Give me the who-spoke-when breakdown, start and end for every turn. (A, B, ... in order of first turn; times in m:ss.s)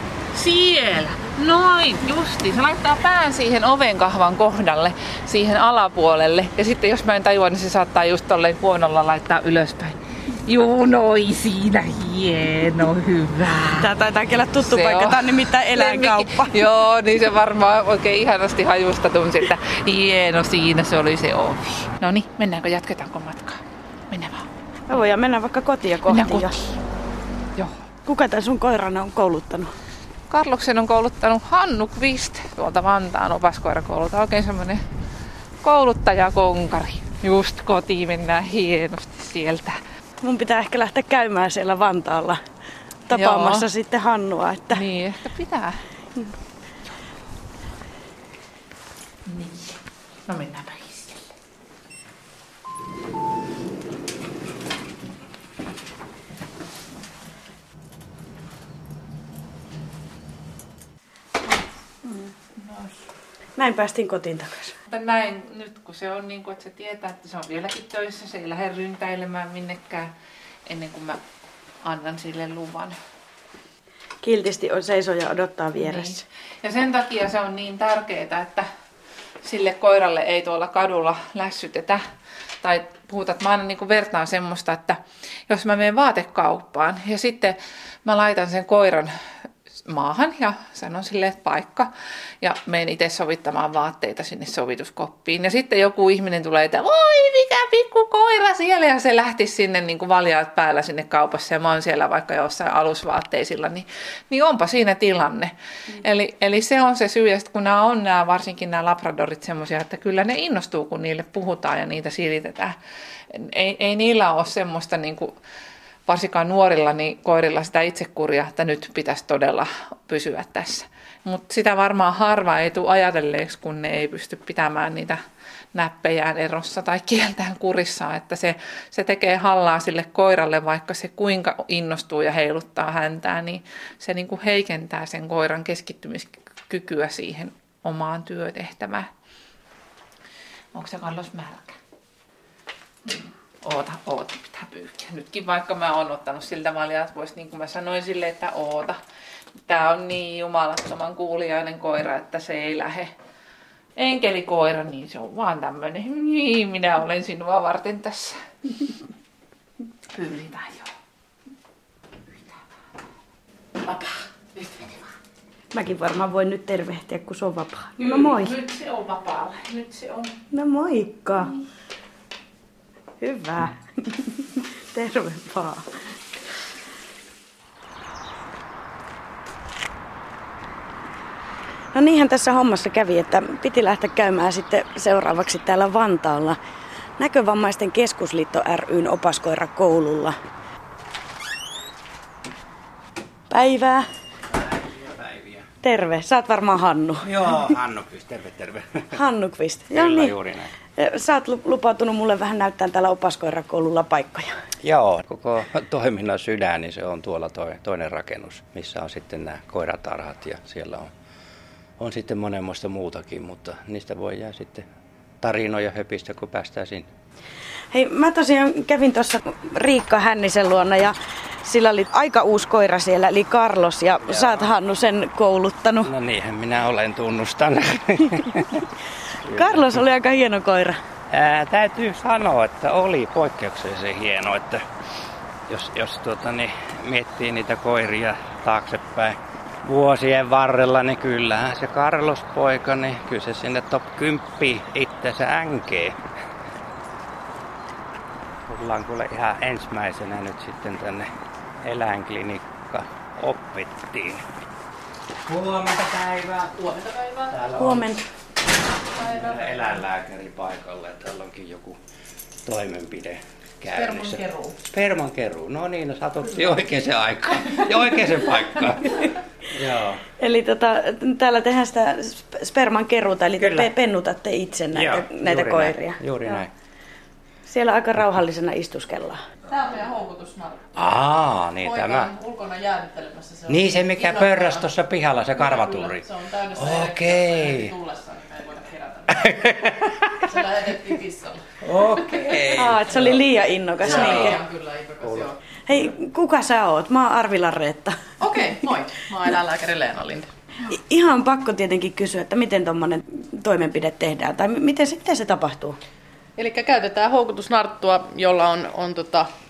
0:00.3-0:13.9 A
0:13.8-0:16.6 B
0:14.6-0:24.5 A
0:24.9-0:26.6 B
0:26.1-0:26.8 A
0:28.0-0:29.7 B
0:30.3-0:34.8 A
0:35.6-0:39.8 A
0:40.2-0:42.4 B
0:43.1-0:44.8 B
0:43.1-0:43.7 A
0:44.7-0:45.8 A
0:49.2-0:51.2 A
1:02.6-1:02.9 A
1:03.6-1:04.8 B
1:04.9-1:10.1 A
1:10.6-1:11.2 A
1:11.8-1:13.0 A
1:14.2-1:16.2 B
1:15.8-1:18.7 A
1:19.4-1:22.0 A
1:22.6-1:29.1 A
1:29.8-1:31.9 A
1:32.4-1:52.7 A
1:53.3-1:55.3 A
1:56.0-2:05.2 A
2:05.7-2:19.1 A
2:20.7-2:21.8 A
2:23.1-2:29.0 A
2:29.7-2:33.1 A
2:34.0-2:38.4 A
2:40.1-2:40.9 A
2:43.8-2:45.0 A
2:45.7-2:48.6 B
2:48.0-2:50.4 A
2:50.5-2:51.5 B
2:53.2-2:55.8 B
3:01.9-3:06.6 B
3:07.2-3:10.3 B
3:13.5-3:14.1 B
3:14.5-3:15.7 C
3:15.8-3:17.3 B
3:17.2-3:19.2 C
3:19.1-3:20.3 B
3:19.9-3:20.7 C
3:21.0-3:24.5 B
3:24.8-3:31.1 C
3:32.0-3:34.8 C
3:35.4-3:37.1 C
3:37.9-3:46.1 B
3:44.3-3:44.7 C
3:46.0-3:48.9 C
3:49.4-3:51.0 B
3:49.5-3:49.9 C
3:51.3-3:54.8 C
3:55.7-4:06.2 C
4:08.7-4:11.3 C
4:11.8-4:14.4 C
4:15.4-4:16.9 C
4:16.8-4:17.5 D
4:17.5-4:18.1 C
4:17.8-4:18.2 B
4:19.2-4:22.0 C
4:19.2-4:19.7 D
4:22.6-4:30.2 C
4:24.3-4:24.7 A
4:30.4-4:36.6 B
4:33.6-4:33.9 C
4:34.9-4:36.7 C
4:37.6-4:39.4 B
4:39.7-4:40.9 D
4:41.0-4:42.3 C
4:41.8-4:44.9 D
4:43.7-4:47.9 C
4:45.6-4:52.7 D
4:49.3-4:50.5 C
4:51.8-4:53.4 C
4:52.7-4:54.6 B
4:54.0-4:54.6 C
4:54.0-4:55.6 D
4:55.2-4:56.0 C
4:55.9-4:58.2 B
4:58.4-5:00.5 D
5:00.9-5:06.0 B
5:06.6-5:09.5 D